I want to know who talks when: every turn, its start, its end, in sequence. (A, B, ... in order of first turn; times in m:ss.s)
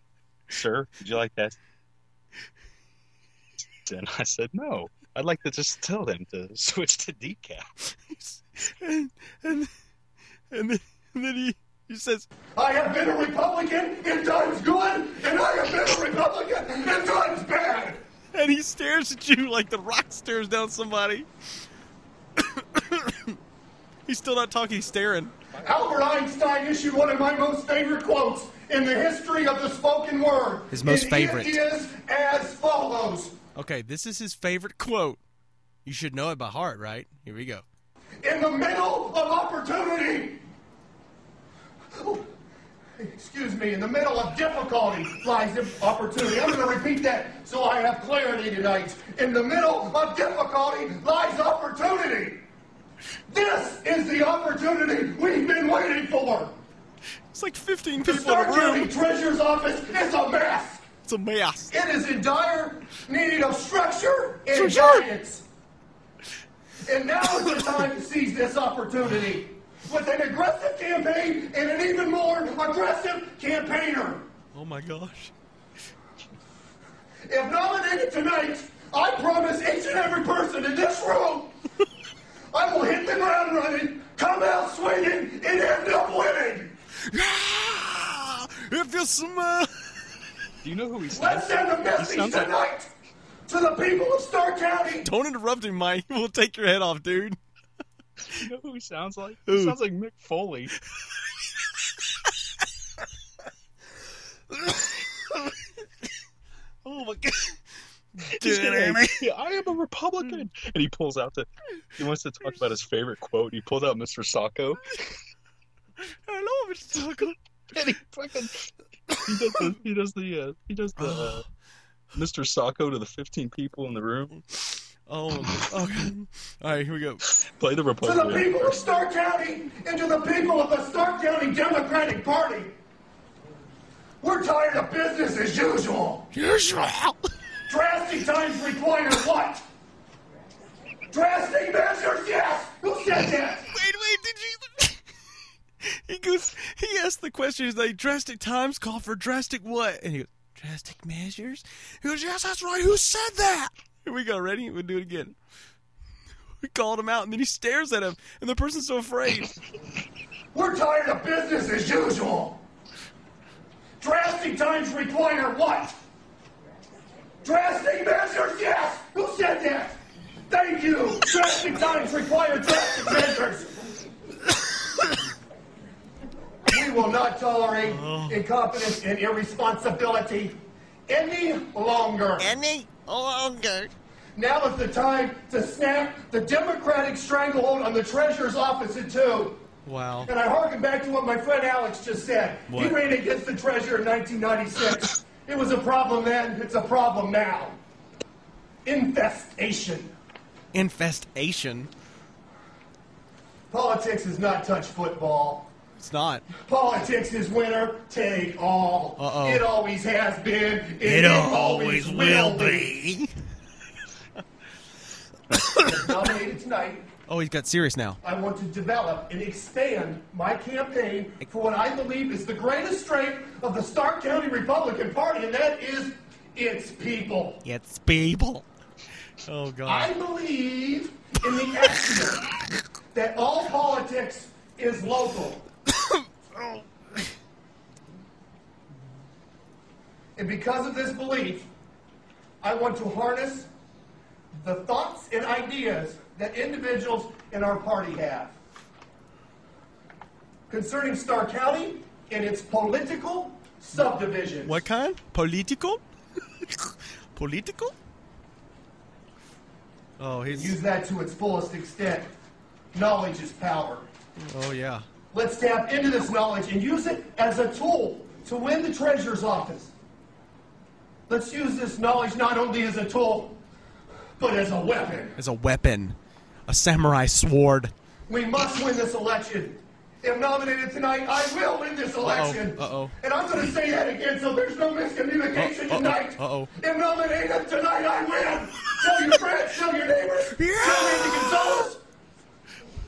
0:00.5-0:01.6 A
0:03.8-0:07.7 A
0:08.2-0:09.7 B
0:10.5-0:12.3 B
0:12.6-0:18.0 C
0:18.3-0:21.3 B
0:22.4-0:23.4 B
0:24.1-0:25.3 B
0:25.6-0:33.3 C
0:30.7-0:31.6 B
0:33.6-0:35.2 B
0:35.8-0:37.6 B
0:38.2-0:40.4 C
0:41.9-0:42.3 C
0:43.0-0:52.4 C
0:53.3-0:56.5 C
0:57.3-0:58.9 B
0:58.0-1:00.8 C
1:01.0-1:01.7 B
1:01.7-1:05.4 C
1:04.5-1:05.1 B
1:06.9-1:14.2 C
1:14.5-1:15.3 B
1:17.3-1:21.5 C
1:22.5-1:26.7 C
1:27.0-1:29.9 B
1:30.6-1:32.6 A
1:31.1-1:32.9 C
1:33.5-1:35.1 C
1:35.0-1:37.4 B
1:38.3-1:40.7 A
1:39.5-1:39.8 B
1:44.5-1:45.5 B
1:46.8-1:47.6 B
1:48.1-1:49.2 B
1:48.3-1:55.0 A
1:56.0-1:57.4 B
1:57.7-2:01.4 A
1:59.2-1:59.8 B
2:01.0-2:01.4 B
2:02.1-2:04.3 A
2:05.1-2:07.2 B
2:07.2-2:09.0 A
2:08.0-2:12.7 C
2:14.2-2:16.3 C
2:16.3-2:17.2 B
2:17.7-2:19.6 C
2:21.1-2:23.7 C
2:23.7-2:25.0 B
2:25.8-2:35.3 B
2:36.6-2:39.5 B
2:40.5-2:42.6 C
2:44.0-2:46.0 C
2:47.4-2:50.0 C
2:50.5-2:53.9 C
2:54.5-2:55.2 B
2:56.7-3:00.6 C
2:57.8-2:58.4 B
3:01.1-3:02.5 C
3:02.4-3:03.9 B
3:04.4-3:09.6 C
3:09.8-3:10.3 B
3:10.2-3:17.8 C
3:12.7-3:13.0 B
3:18.8-3:20.1 C
3:20.7-3:21.9 B
3:23.7-3:25.7 C
3:26.0-3:26.4 B
3:26.7-3:32.9 C
3:29.2-3:29.6 B
3:31.0-3:33.3 B
3:35.5-3:35.9 B
3:35.7-3:37.1 C
3:37.3-3:38.2 B
3:38.2-3:47.6 C
3:47.6-3:48.6 B
3:49.4-3:50.1 B
3:49.8-3:52.5 C
3:53.1-3:55.6 C
3:55.9-3:57.3 B
4:00.4-4:01.7 C
4:02.6-4:03.7 C
4:04.6-4:08.5 C
4:10.7-4:14.8 C
4:14.6-4:16.0 B
4:16.6-4:17.9 B
4:20.2-4:20.7 B
4:20.5-4:22.3 C
4:22.9-4:24.1 C
4:24.4-4:25.0 B
4:25.3-4:29.9 C
4:31.3-4:33.6 C
4:34.4-4:35.4 C
4:35.4-4:36.2 B
4:36.7-4:37.9 B
4:38.3-4:52.0 C
4:42.2-4:43.1 B
4:45.5-4:46.7 B
4:50.5-4:51.8 B